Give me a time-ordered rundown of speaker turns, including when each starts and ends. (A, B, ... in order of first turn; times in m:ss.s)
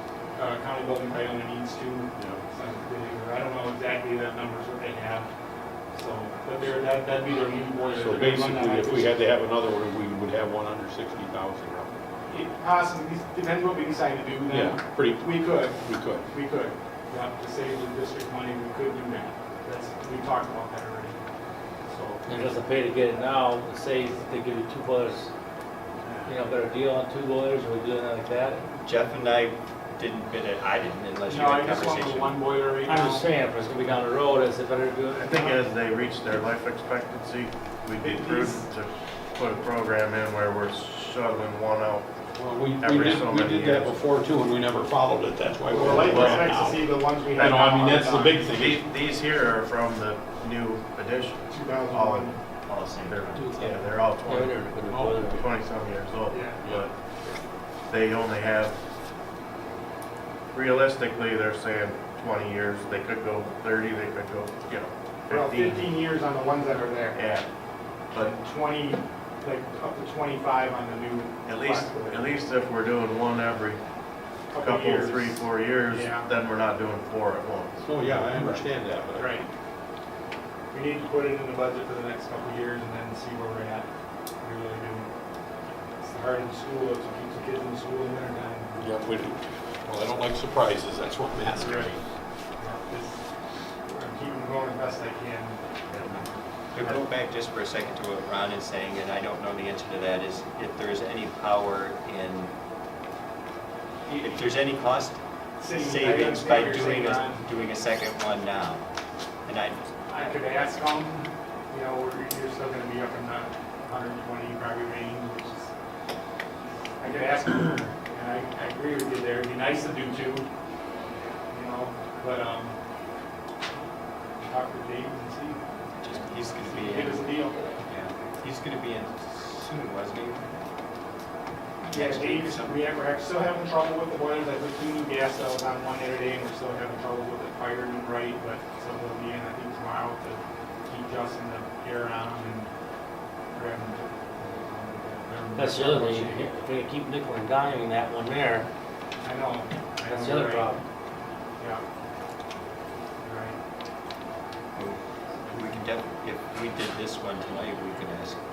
0:00.4-0:05.3 A
0:05.9-0:09.1 A
0:08.0-0:11.9 B
0:12.3-0:21.2 A
0:14.5-0:16.2 B
0:21.9-0:22.4 A
0:22.3-0:25.3 C
0:26.2-0:28.6 C
0:28.8-0:32.4 D
0:31.3-0:33.3 A
0:32.8-0:35.6 C
0:35.1-0:42.1 E
0:38.0-0:38.6 A
0:42.4-0:48.8 B
0:42.8-0:43.9 E
0:45.7-0:48.4 A
0:45.8-0:46.5 E
0:48.5-0:52.3 E
0:51.5-0:52.4 A
0:52.7-0:53.4 D
0:52.9-0:56.9 E
0:53.4-0:55.4 C
0:54.8-0:55.4 B
0:56.3-0:57.4 A
0:57.9-0:58.8 E
1:00.5-1:05.9 E
1:05.3-1:07.2 A
1:07.1-1:07.4 E
1:08.1-1:12.2 A
1:11.4-1:13.8 E
1:14.5-1:16.3 A
1:14.6-1:18.3 E
1:17.8-1:19.4 B
1:19.2-1:19.5 A
1:20.7-1:23.9 A
1:24.4-1:25.1 A
1:26.0-1:28.9 A
1:28.8-1:32.0 B
1:31.5-1:32.0 A
1:32.6-1:33.2 A
1:33.8-1:37.0 A
1:36.7-1:42.5 D
1:44.2-1:48.8 D
1:45.6-1:47.5 A
1:49.4-1:49.9 D
1:50.1-1:55.7 A
1:57.0-2:00.5 A
2:01.5-2:02.8 A
2:04.4-2:05.6 A
2:06.0-2:07.3 D
2:06.5-2:07.6 A
2:07.9-2:10.4 D
2:11.8-2:12.8 D
2:11.9-2:22.7 A
2:23.5-2:26.5 A
2:25.5-2:28.6 C
2:29.2-2:30.7 A
2:30.0-2:30.8 C
2:33.2-2:33.6 A
2:34.8-2:38.4 D